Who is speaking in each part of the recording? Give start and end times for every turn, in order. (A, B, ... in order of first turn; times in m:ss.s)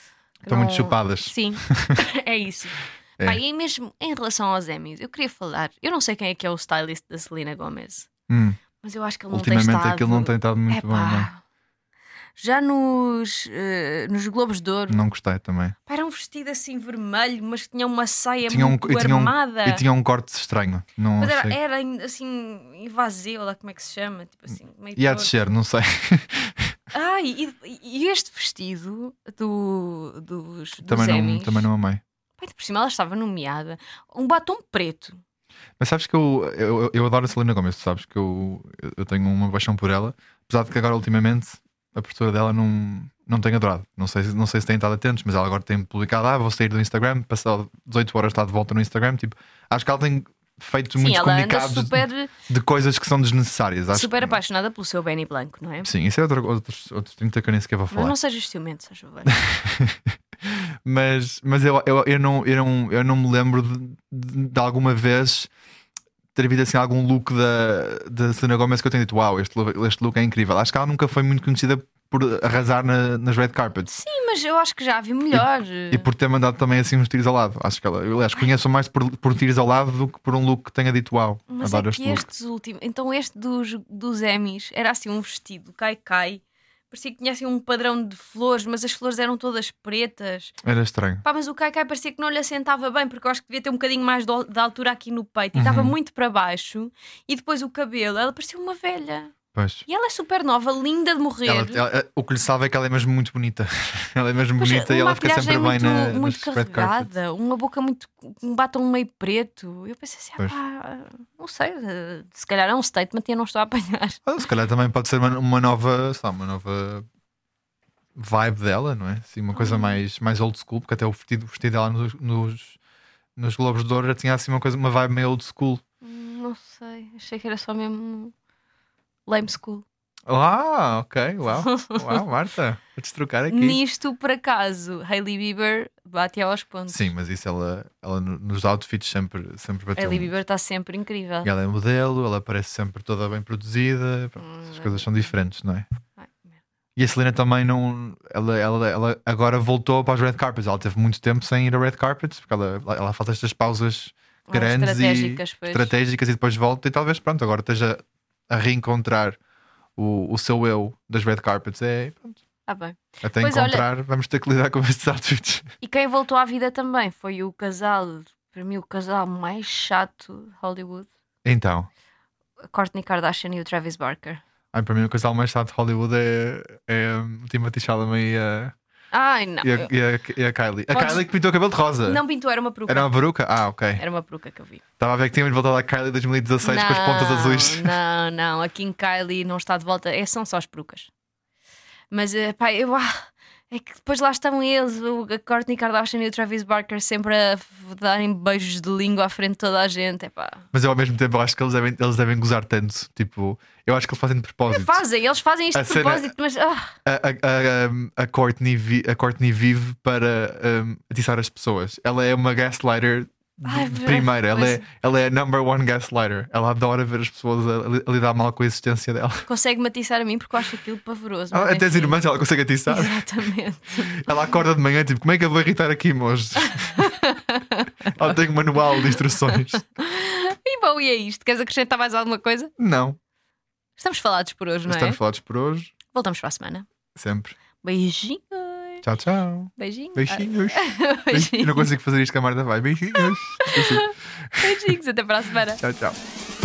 0:00.4-0:08.1 A
0:00.5-0:02.0 B
0:08.3-0:08.6 B
0:08.8-0:11.4 A
0:09.3-0:11.3 B
0:12.4-0:15.1 A
0:14.9-0:15.7 B
0:15.9-0:19.8 A
0:18.5-0:21.6 B
0:21.2-0:25.3 A
0:25.0-0:26.7 B
0:26.9-0:31.7 A
0:30.8-0:32.0 B
0:32.4-0:35.2 A
0:35.8-0:54.4 B
0:51.0-0:52.3 A
0:53.9-0:55.9 A
0:55.8-0:58.1 B
0:57.9-0:59.4 A
0:59.2-1:05.5 B
1:06.4-1:13.9 B
1:13.9-1:16.1 A
1:15.3-1:22.2 B
1:21.5-1:30.5 A
1:30.6-1:31.2 B
1:31.2-1:39.3 A
1:35.6-1:36.0 B
1:39.5-1:39.8 B
1:39.9-1:41.8 A
1:41.4-1:47.1 B
1:44.6-1:54.2 A
1:54.2-1:57.1 B
1:58.1-2:02.8 B
1:59.5-2:00.0 A
2:03.4-2:05.8 B
2:06.0-2:08.3 A
2:09.3-2:09.8 A
2:10.3-2:13.8 B
2:11.6-2:12.2 A
2:13.5-2:17.1 A
2:16.9-2:20.3 B
2:20.0-2:21.5 A
2:21.4-2:25.9 B
2:24.4-2:25.1 A
2:26.2-2:26.6 A
2:27.0-2:39.4 B
2:34.5-2:35.9 A
2:40.0-2:42.4 B
2:42.6-2:43.9 A
2:43.2-2:45.7 B
2:45.8-2:51.1 A
2:51.4-2:51.9 B
2:52.7-2:54.4 A
2:54.7-2:58.7 B
2:59.1-2:59.9 A
2:59.6-3:02.2 B
3:00.9-3:01.2 A
3:02.1-3:03.1 A
3:02.9-3:04.0 B
3:04.0-3:04.8 A
3:05.0-3:07.9 B
3:06.6-3:11.1 A
3:12.1-3:20.6 A
3:20.7-3:25.0 B
3:24.7-3:26.9 A
3:25.7-3:26.3 B
3:27.0-3:39.5 B
3:33.6-3:34.8 A
3:39.5-3:42.2 A
3:41.5-3:43.2 B
3:42.9-3:44.3 A
3:44.1-3:47.0 B
3:46.6-3:48.2 A
3:48.1-3:49.8 B
3:48.9-3:52.7 A
3:52.8-3:53.2 B
3:54.0-3:55.2 A
3:54.9-3:55.9 B
3:56.1-3:56.9 A
3:57.1-3:57.6 B
3:57.8-3:59.0 A
3:59.0-4:05.0 B
3:59.8-4:01.9 A
4:03.2-4:05.8 A
4:05.8-4:06.2 B